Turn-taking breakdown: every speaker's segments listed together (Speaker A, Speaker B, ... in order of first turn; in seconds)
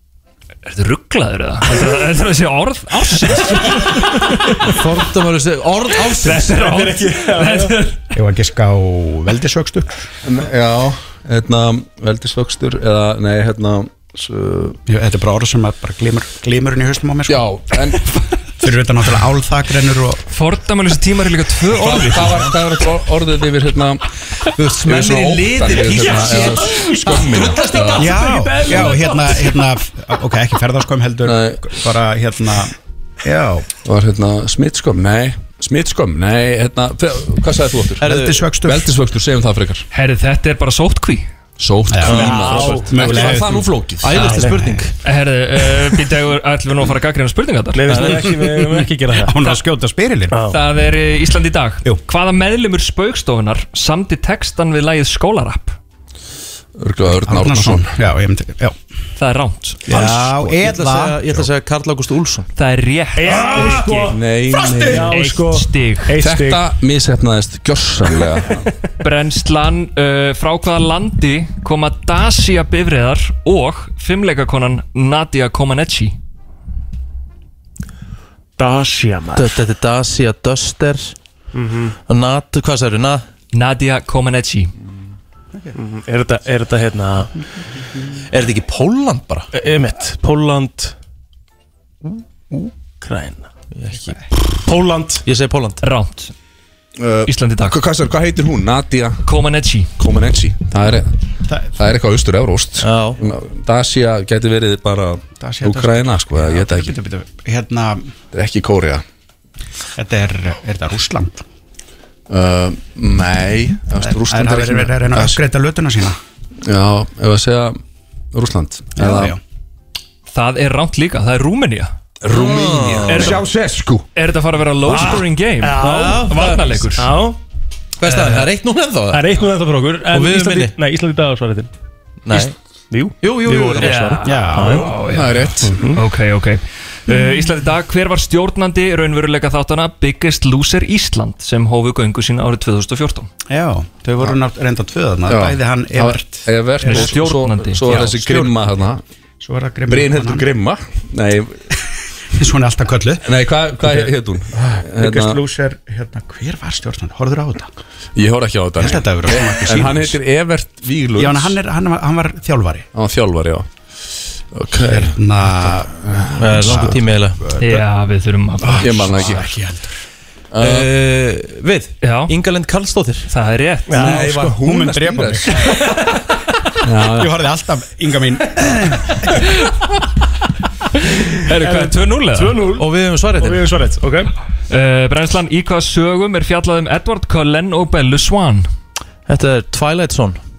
Speaker A: 0.6-4.7, 6.1-8.0, 20.3-22.5, 39.9-41.3, 45.0-48.1, 50.5-55.8, 59.2-59.8, 62.5-64.0, 65.0-66.1, 69.0-76.2, 83.5-84.7, 95.8-96.3, 97.3-97.8, 99.2-99.9, 120.3-121.9, 123.1-123.4, 124.1-127.1, 133.8-143.3, 146.8-148.1, 167.6-169.1, 172.0-172.3, 173.3-174.0, 181.4-182.6, 184.7-188.7
Speaker B: 4.6-6.9, 24.6-28.1, 38.0-38.4, 42.1-42.4, 44.0-44.9, 47.9-48.2, 59.9-62.5, 79.3-81.1, 82.1-83.2, 88.3-89.5, 93.8-94.2, 95.2-95.8, 102.8-103.2, 122.3-123.4, 125.7-126.8, 128.0-129.2, 130.1-130.7, 132.2-132.5, 133.2-134.2, 166.4-167.4, 170.6-173.3, 182.8-183.7, 189.3-190.4
Speaker C: 6.5-7.8, 25.9-29.6, 42.1-43.3, 47.8-49.4, 50.3-50.6, 63.2-64.2, 64.9-66.6, 78.6-79.6, 81.5-82.0, 85.8-87.3, 89.5-90.9, 93.0-93.5, 94.6-95.2, 124.8-126.3, 127.0-127.4, 128.1-128.3, 129.1-131.7, 132.3-134.9, 135.7-136.0, 173.9-174.6, 181.5-182.9, 183.4-184.3
Speaker D: 8.1-10.0, 14.9-17.4, 18.6-20.2, 28.0-32.7, 33.2-33.7, 38.0-38.9, 41.9-44.8, 48.4-50.4, 57.2-58.8, 59.9-61.2, 101.5-101.7, 105.4-108.1, 110.0-111.4, 114.0-116.2, 119.0-119.4, 134.2-134.8, 143.5-147.2, 147.8-148.5, 149.4-150.5, 152.4-153.2, 153.8-154.1, 154.9-157.7, 158.8-160.2, 161.1-162.9, 164.8-166.0, 167.4-167.8, 169.0-170.0, 174.0-175.6, 177.1-179.1
Speaker E: 10.2-14.8, 17.2-18.1, 21.7-24.0, 24.6-28.2, 31.2-31.8, 33.7-39.9, 41.6-44.3, 56.8-57.9, 64.0-65.1, 66.2-68.7, 97.0-99.2, 100.0-101.1, 101.7-107.0, 108.3-109.0, 112.3-115.4, 116.6-117.8, 118.3-119.4, 122.2-124.0, 134.7-135.9, 145.2-149.0, 149.9-151.5, 153.2-155.4, 158.1-161.6, 162.9-163.7, 164.5-167.0, 168.6-169.5, 170.5-170.9, 174.0-175.6, 176.8-177.4